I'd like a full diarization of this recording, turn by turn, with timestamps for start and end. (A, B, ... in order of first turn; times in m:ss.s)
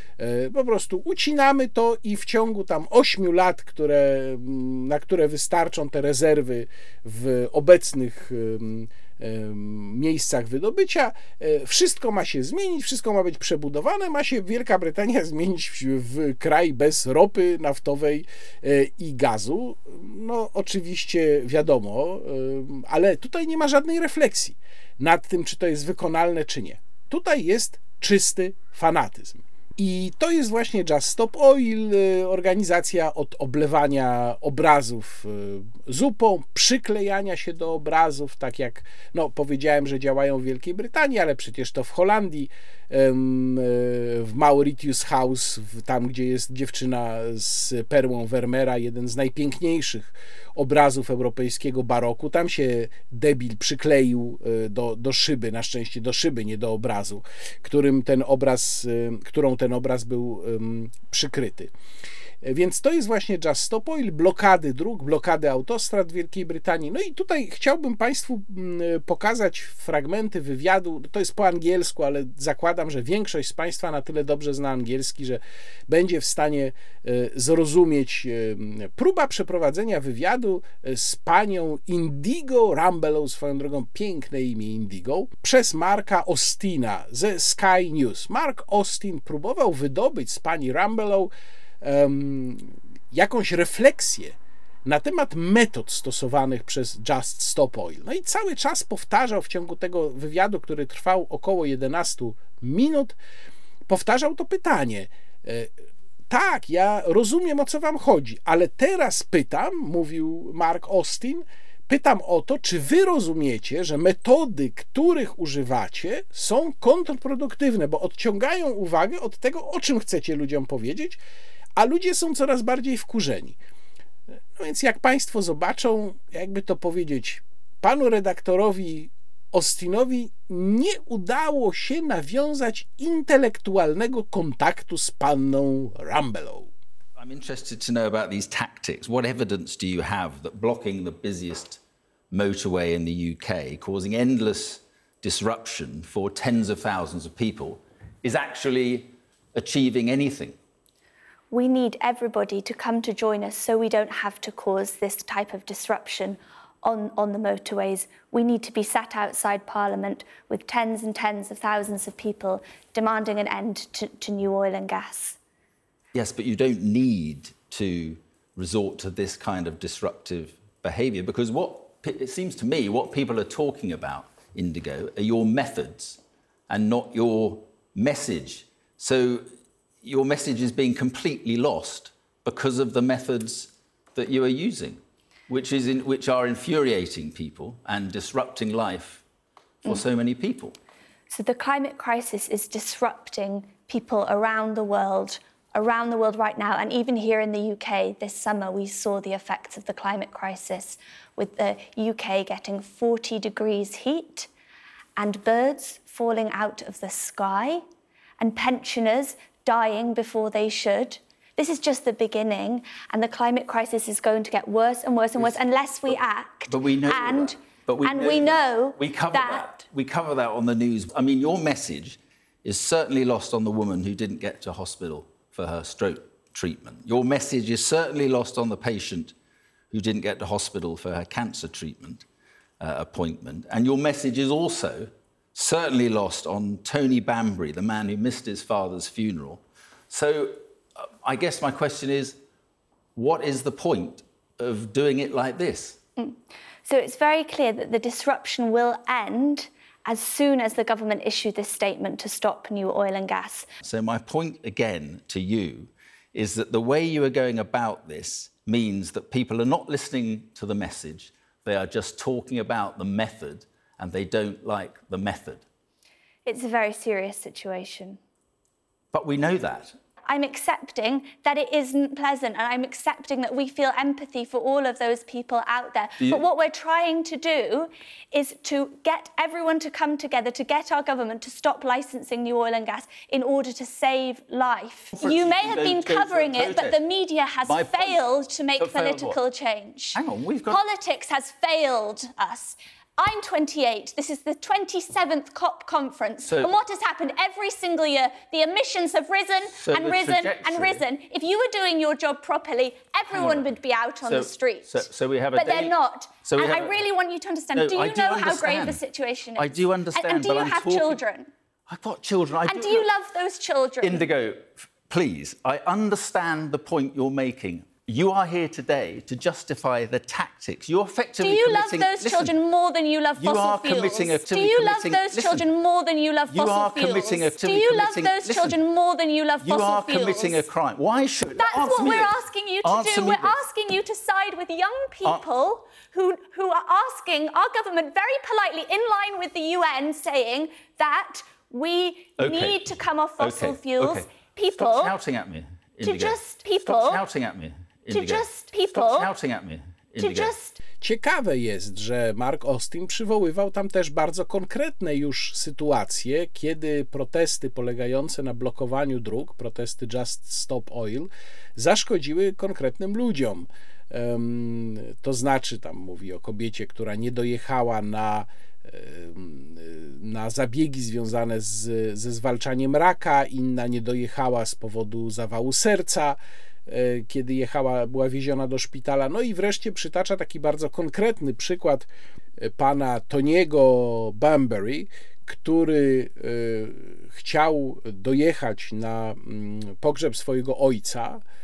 0:00.2-1:01.7 A
1:02.4-1:43.2 A
1:43.9-1:45.7 A
1:46.3-2:01.2 A
2:01.8-2:03.6 A
2:04.6-2:16.7 A
2:17.2-2:21.8 B
2:22.3-2:30.6 B
2:31.5-2:45.4 C
2:46.1-2:59.5 B
3:00.0-3:09.2 B
3:09.9-3:10.8 B
3:11.3-3:24.5 C
3:25.2-3:27.8 C
3:28.4-3:39.8 C
3:35.4-3:36.2 B
3:36.7-3:49.3 B
3:49.9-3:52.3 B
3:52.8-4:02.4 B
4:03.2-4:06.0 B
4:06.2-4:13.7 C
4:13.8-4:25.6 B
4:26.5-4:28.2 C
4:29.1-4:30.0 B
4:30.3-5:11.5 C
4:36.2-4:36.5 B
4:45.2-4:47.0 B
4:47.7-4:48.2 B
4:48.8-4:49.4 B
4:50.2-4:50.8 B
4:56.4-4:56.7 B
4:59.8-5:01.0 B
5:03.3-5:03.7 B
5:04.2-5:07.0 B
5:07.8-5:09.0 B
5:09.6-5:11.2 B
5:11.9-5:13.1 B
5:12.7-5:14.3 C
5:14.0-5:22.6 B
5:21.4-5:30.7 C
5:23.4-5:25.7 B
5:26.5-5:28.8 B
5:29.6-5:33.6 B
5:31.6-5:45.2 C
5:42.4-5:50.6 B
5:46.0-5:47.2 C
5:48.1-5:49.3 C
5:50.2-5:50.8 C
5:51.0-6:22.1 A
6:22.6-6:31.4 A